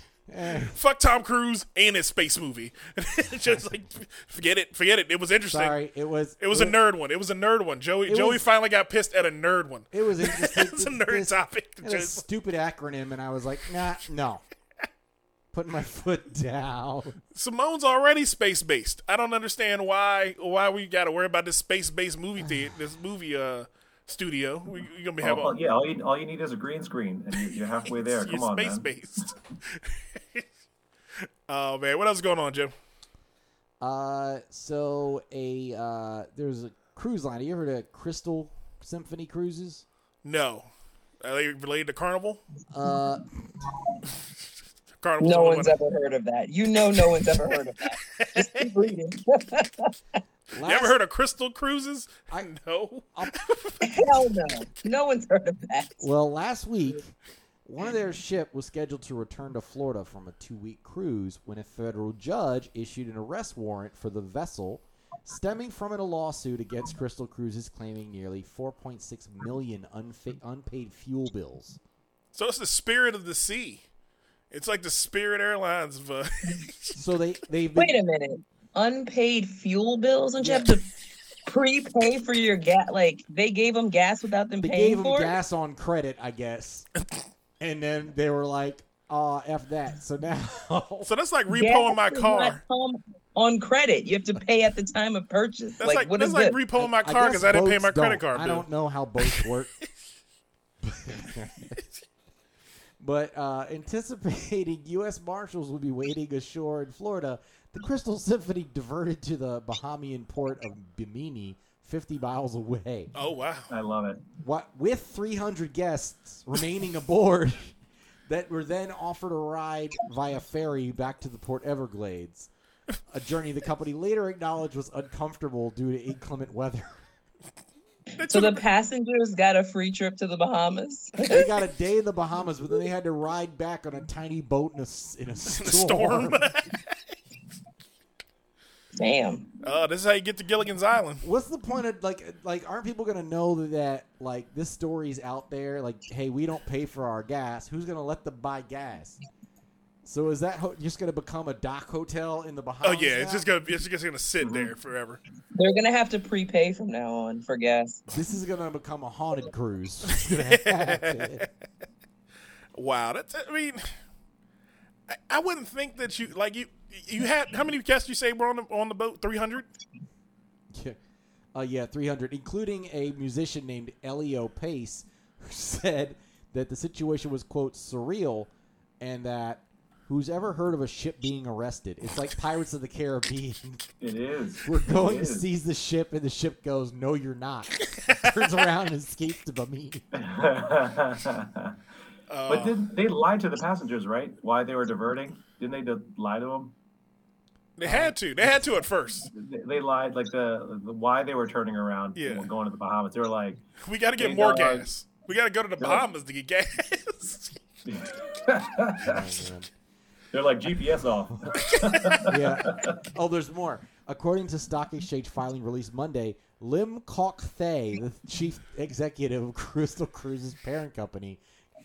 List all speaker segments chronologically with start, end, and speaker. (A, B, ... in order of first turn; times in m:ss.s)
0:00.3-0:00.8 A
0:00.5-0:05.8 B
0:03.4-0:03.8 A
0:05.5-0:06.8 A
0:06.4-0:12.2 B
0:08.1-0:08.5 A
0:09.9-0:14.4 A
0:15.5-0:17.2 A
0:17.3-0:25.6 B
0:25.2-0:28.9 C
0:28.0-0:30.4 B
0:31.5-0:32.7 B
0:33.8-0:39.8 A
0:40.2-0:40.7 B
0:41.2-0:42.4 B
0:42.7-0:43.2 A
0:45.0-0:45.8 B
0:45.2-0:49.9 D
0:48.2-0:48.7 B
0:50.5-0:51.0 A
0:50.6-0:54.4 B
0:53.8-0:56.1 D
0:56.0-0:57.1 A
0:57.6-1:11.8 A
1:12.3-1:13.8 B
1:14.5-1:17.0 B
1:17.0-1:18.0 A
1:17.8-1:20.9 D
1:20.4-1:20.8 A
1:21.5-1:25.3 D
1:24.6-1:26.9 A
1:27.6-1:31.1 A
1:31.0-1:32.6 B
1:31.5-1:36.6 D
1:35.8-1:38.7 B
1:36.8-1:39.7 A
1:40.8-1:41.8 A
1:43.0-1:53.1 A
1:53.2-1:53.7 B
1:53.7-1:54.2 C
1:54.4-1:57.8 A
1:58.3-2:02.5 A
2:03.1-2:07.0 A
2:08.2-2:08.6 B
2:08.3-2:11.5 D
2:11.2-2:16.4 A
2:15.5-2:17.0 B
2:19.0-2:19.5 D
2:19.6-2:21.2 B
2:21.2-2:29.2 A
2:30.0-2:33.5 A
2:32.8-2:35.2 B
2:34.4-2:34.7 C
2:35.6-2:38.0 D
2:38.1-2:41.5 A
2:40.3-2:41.5 B
2:42.8-2:43.9 B
2:45.1-2:49.7 B
2:50.7-2:51.0 A
2:51.5-3:03.8 A
3:04.0-3:05.4 C
3:04.6-3:10.0 A
3:10.1-3:11.8 C
3:12.3-3:12.8 B
3:12.5-3:16.7 C
3:17.8-3:19.3 B
3:17.9-3:18.6 C
3:19.3-3:23.6 C
3:22.2-3:22.5 B
3:23.8-3:27.6 B
3:24.2-3:24.9 C
3:25.8-3:26.0 C
3:27.9-3:29.2 C
3:29.0-3:29.7 A
3:30.3-3:33.0 C
3:31.6-3:32.3 B
3:32.3-3:41.4 A